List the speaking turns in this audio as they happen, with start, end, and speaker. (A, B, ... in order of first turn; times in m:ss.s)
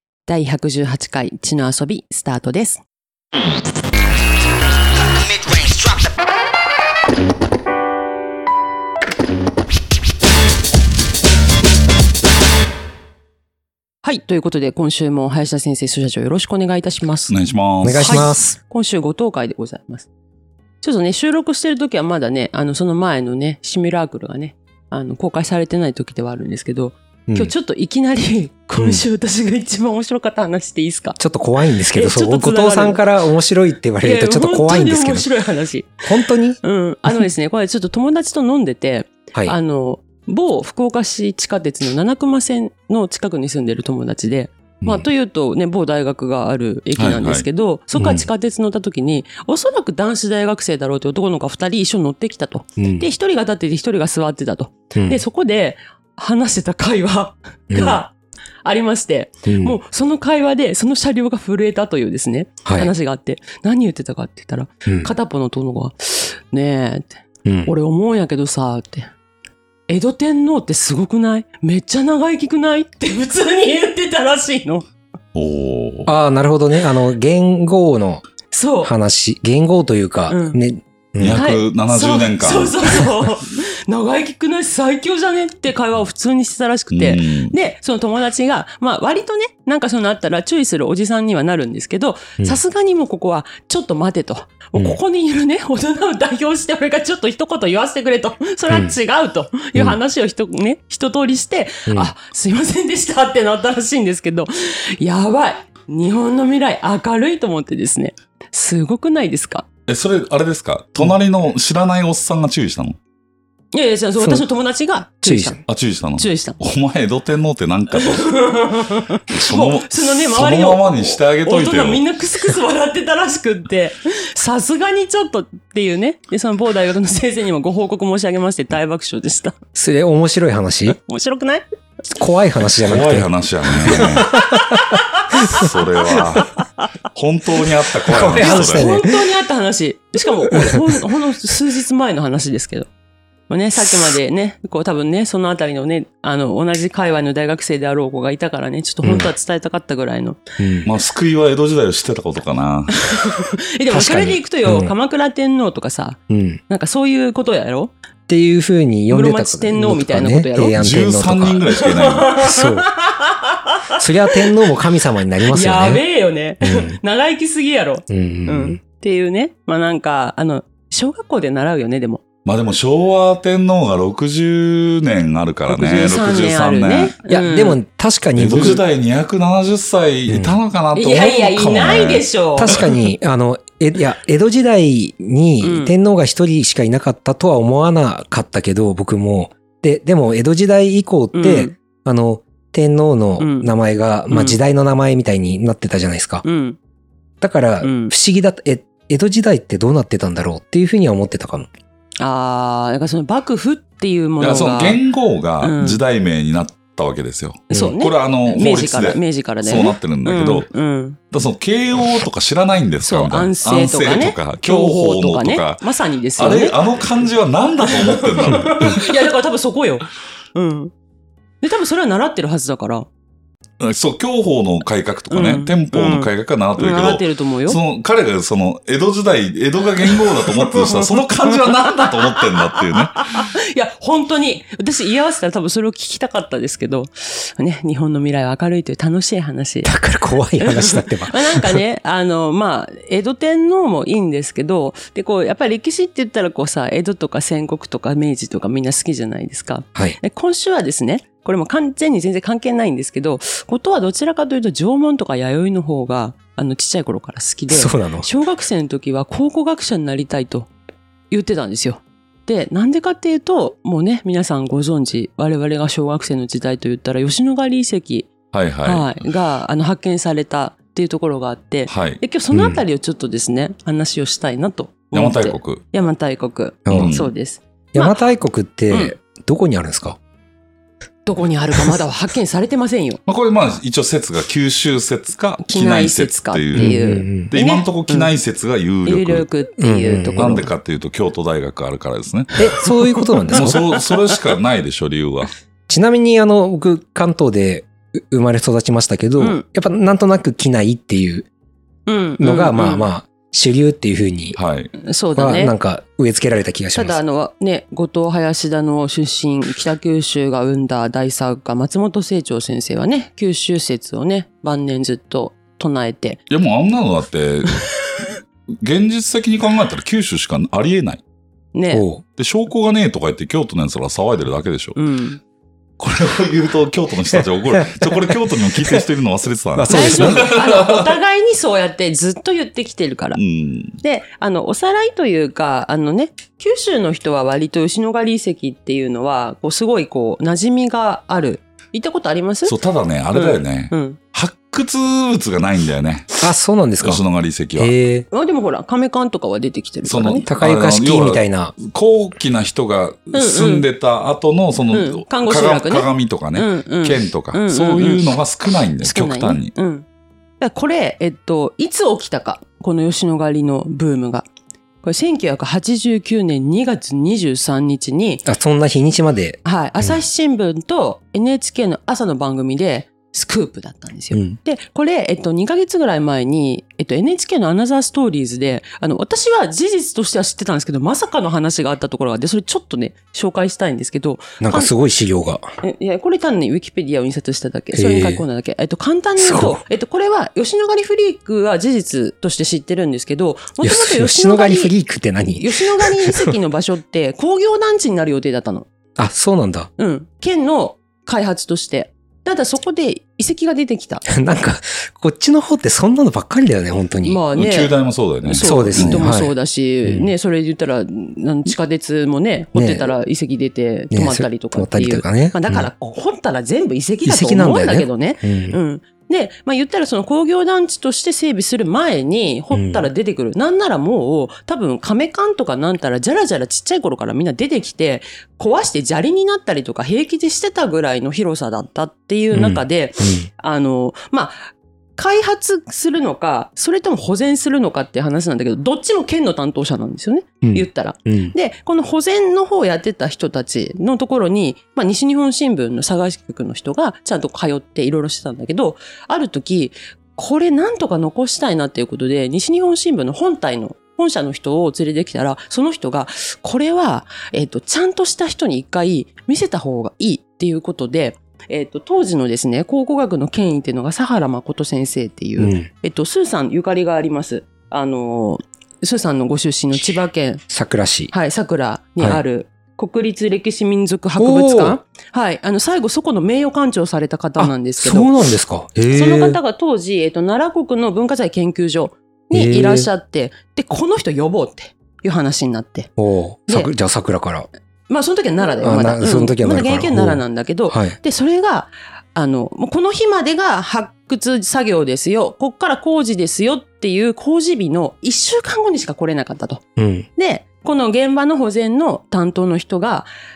0:00.3-0:02.8 A
0:14.0-0:20.1 A
0:17.3-0:18.3 B
0:17.8-0:18.6 C
0:20.8-0:31.2 A
0:27.3-0:27.5 C
0:28.8-0:29.0 C
0:31.2-0:35.3 C
0:31.9-0:33.0 A
0:34.0-1:09.1 A
0:36.0-0:37.2 C
0:44.8-0:45.1 C
0:47.0-0:47.4 B
0:48.0-0:48.3 C
0:52.8-0:53.1 C
0:55.0-0:55.2 C
0:57.7-0:58.0 C
0:59.5-0:59.8 C
1:02.6-1:02.9 C
1:04.9-1:05.1 C
1:07.4-1:07.7 C
1:09.9-1:14.9 A
1:15.3-1:16.1 B
1:16.1-1:18.2 C
1:18.5-1:18.9 A
1:18.8-1:21.4 C
1:20.3-1:20.6 A
1:21.2-1:22.8 B
1:21.3-1:49.7 A
1:26.9-1:27.6 B
1:41.9-1:42.1 C
1:49.9-1:53.0 B
1:53.7-1:55.6 A
1:55.2-1:55.6 C
1:55.7-1:58.4 B
1:56.2-1:56.6 A
1:58.0-2:09.6 A
1:59.3-2:02.0 B
2:09.8-2:11.0 C
2:10.9-2:11.6 A
2:12.1-2:13.3 C
2:12.8-2:14.4 B
2:13.9-2:14.7 C
2:13.9-2:16.8 A
2:15.5-2:16.6 B
2:17.1-2:18.9 B
2:18.1-2:19.2 C
2:18.2-2:22.9 A
2:20.5-2:20.8 C
2:23.5-2:30.4 A
2:29.0-2:29.3 C
2:30.6-2:30.9 C
2:30.8-2:33.0 B
2:33.0-2:37.9 A
2:33.9-2:34.9 C
2:36.3-2:36.6 C
2:38.3-2:41.6 C
2:39.1-2:40.8 A
2:40.8-2:42.3 B
2:41.8-2:44.5 A
2:42.4-2:42.9 C
2:44.0-2:46.0 C
2:45.5-2:52.2 A
2:46.6-2:47.0 C
2:48.1-2:48.8 C
2:52.4-2:57.2 B
2:55.7-2:57.8 A
2:57.3-2:58.8 C
2:58.4-3:02.8 B
3:00.3-3:00.6 C
3:00.9-3:02.8 A
3:02.6-3:16.4 C
3:05.6-3:05.9 A
3:11.3-3:11.8 A
3:13.4-3:13.7 A
3:14.3-3:14.6 A
3:16.4-3:16.8 A
3:17.4-3:21.7 C
3:17.8-3:18.1 A
3:22.2-3:25.0 A
3:24.4-3:30.7 B
3:25.6-3:26.0 A
3:27.7-3:31.2 A
3:31.3-3:35.8 B
3:33.0-3:37.0 A
3:36.4-3:39.1 B
3:37.8-3:40.9 A
3:38.5-3:38.8 C
3:41.6-3:43.1 A
3:43.8-3:53.5 B
3:45.3-3:47.8 A
3:50.1-3:59.9 A
3:59.8-4:01.8 C
4:00.6-4:20.7 A
4:17.7-4:18.3 C
4:21.3-4:38.2 A
4:28.5-4:29.2 B
4:31.9-4:32.2 B
4:32.5-4:32.8 C
4:35.1-4:35.8 B
4:36.9-4:37.1 C
4:36.9-4:37.3 B
4:37.9-4:40.2 C
4:38.9-4:39.2 A
4:41.2-4:43.2 A
4:43.3-4:49.5 B
4:45.6-4:48.3 A
4:46.8-4:47.5 C
4:49.1-4:50.7 A
4:49.8-4:50.7 C
4:50.4-4:52.6 B
4:52.6-4:53.8 C
4:52.7-4:54.4 A
4:53.5-4:55.5 B
4:55.9-5:01.5 C
5:02.1-5:03.1 A
5:02.4-5:04.6 C
5:04.6-5:04.9 B
5:05.0-5:05.7 A
5:05.4-5:07.2 C
5:06.9-5:16.4 A
5:16.5-5:17.8 B
5:18.8-5:21.2 B
5:21.7-5:22.0 A
5:21.9-5:22.2 C
5:22.4-5:25.0 B
5:25.0-5:25.4 A
5:26.0-5:31.1 B
5:29.8-5:30.5 C
5:29.9-5:33.4 A
5:33.4-5:34.0 B
5:34.0-5:42.8 A
5:42.6-5:46.4 B
5:43.3-5:44.2 A
5:46.4-5:47.2 C
5:47.0-5:47.9 B
5:47.8-5:48.2 C
5:48.3-5:50.4 A
5:50.0-5:59.7 B
5:50.5-5:51.7 C
5:53.3-5:53.9 A
5:54.9-5:58.2 A
5:59.0-6:00.0 A
6:00.6-6:04.4 A
6:05.0-6:08.4 A
6:08.4-6:10.2 C
6:09.6-6:24.9 A
6:24.6-6:25.7 C
6:25.8-6:34.9 A
6:27.9-6:28.4 C
6:29.4-6:29.8 C
6:33.8-6:36.5 C
6:35.5-6:38.9 A
6:39.2-6:39.9 C
6:40.0-6:44.2 A
6:44.2-6:47.4 C
6:47.2-7:50.6 A
6:47.5-6:49.2 B
6:48.6-6:49.5 C
6:50.0-6:50.3 C
6:52.8-6:53.1 C
6:54.1-6:55.9 C
6:57.2-6:58.8 C
7:02.7-7:03.1 C
7:12.5-7:13.5 C
7:20.6-7:21.5 C
7:45.6-7:45.9 C
7:50.7-7:51.3 C
7:51.3-7:58.4 A
7:54.4-7:55.0 C
7:57.6-7:59.6 C
7:59.1-8:06.1 A
8:02.5-8:03.1 C
8:06.2-8:07.7 C
8:08.1-8:19.8 A
8:08.8-8:11.2 C
8:20.0-8:20.3 C
8:20.4-8:23.3 A